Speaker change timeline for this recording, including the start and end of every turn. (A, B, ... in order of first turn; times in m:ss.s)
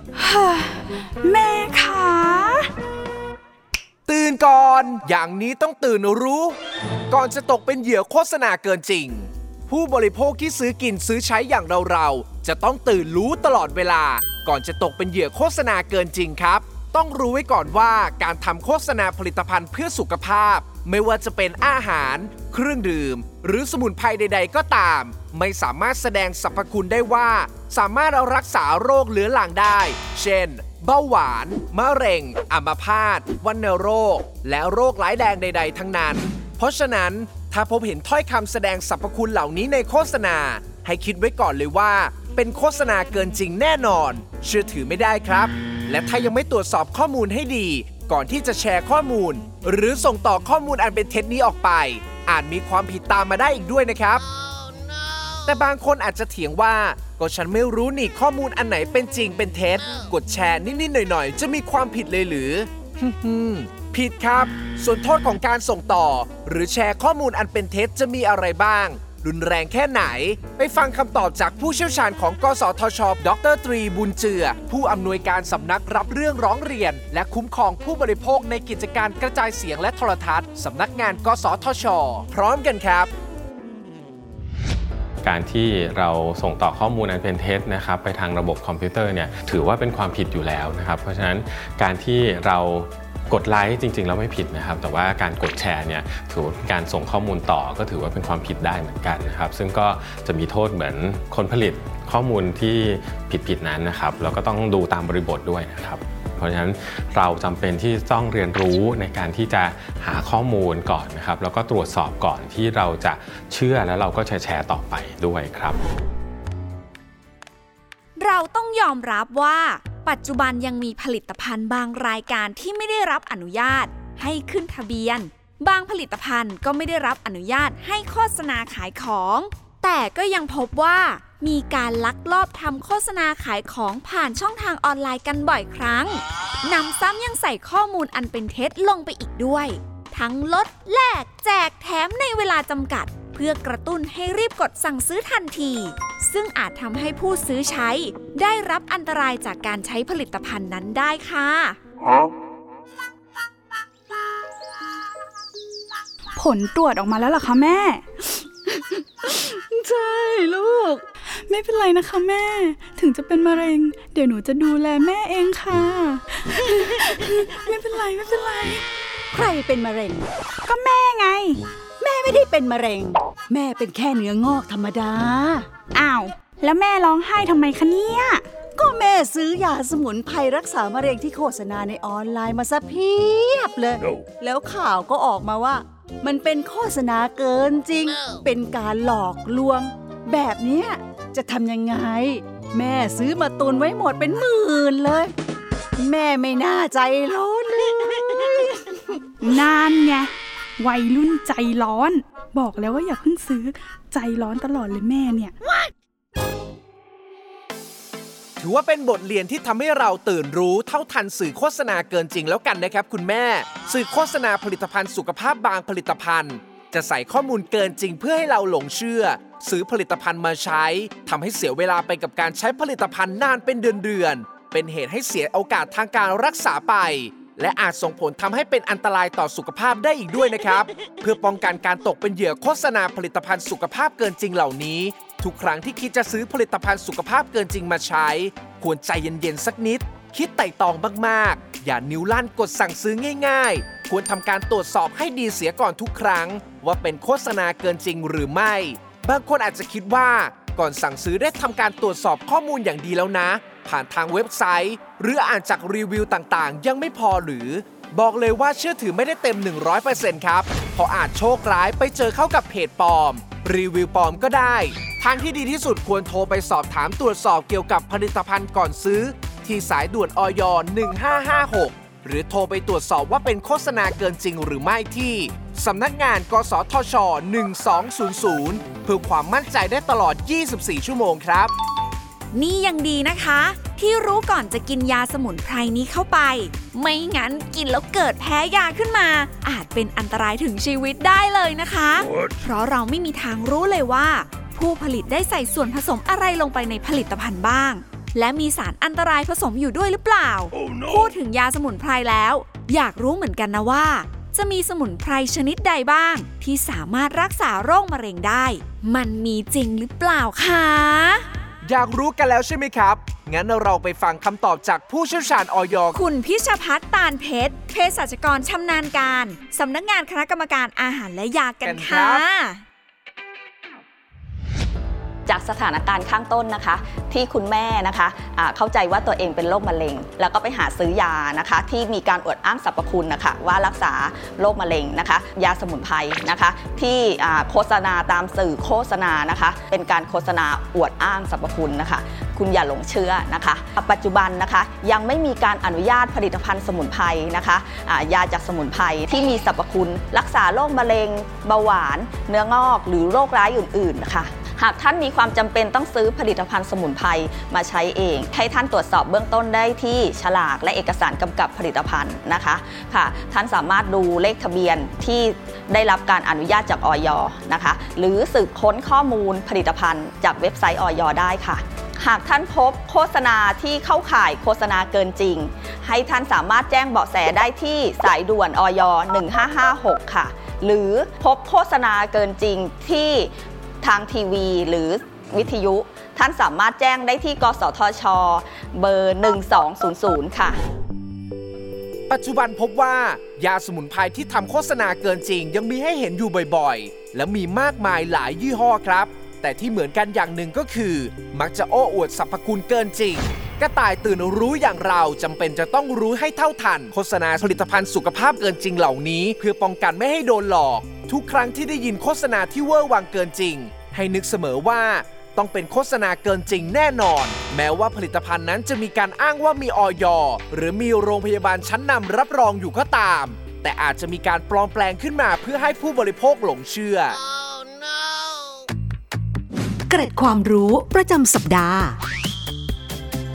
0:00.2-0:02.7 A
0:04.1-0:06.6 B
0:07.1-0:54.2 B
0:55.5-1:23.1 B
1:25.2-1:55.8 C
1:58.2-2:31.8 D
2:36.4-2:38.5 A
2:38.7-2:41.0 E
2:41.5-2:48.9 A
2:49.3-2:50.3 E
2:50.7-2:51.6 A
2:52.0-2:55.7 E
2:55.9-2:58.4 A
2:58.8-3:15.3 E
3:16.0-3:19.0 E
3:19.4-3:25.5 A
3:28.6-4:41.7 B
4:42.5-5:11.4 D
5:11.8-5:16.2 B
5:16.1-5:22.8 D
5:21.8-5:22.4 B
5:25.5-6:30.8 F
6:32.3-7:07.4 B
7:10.1-7:12.2 G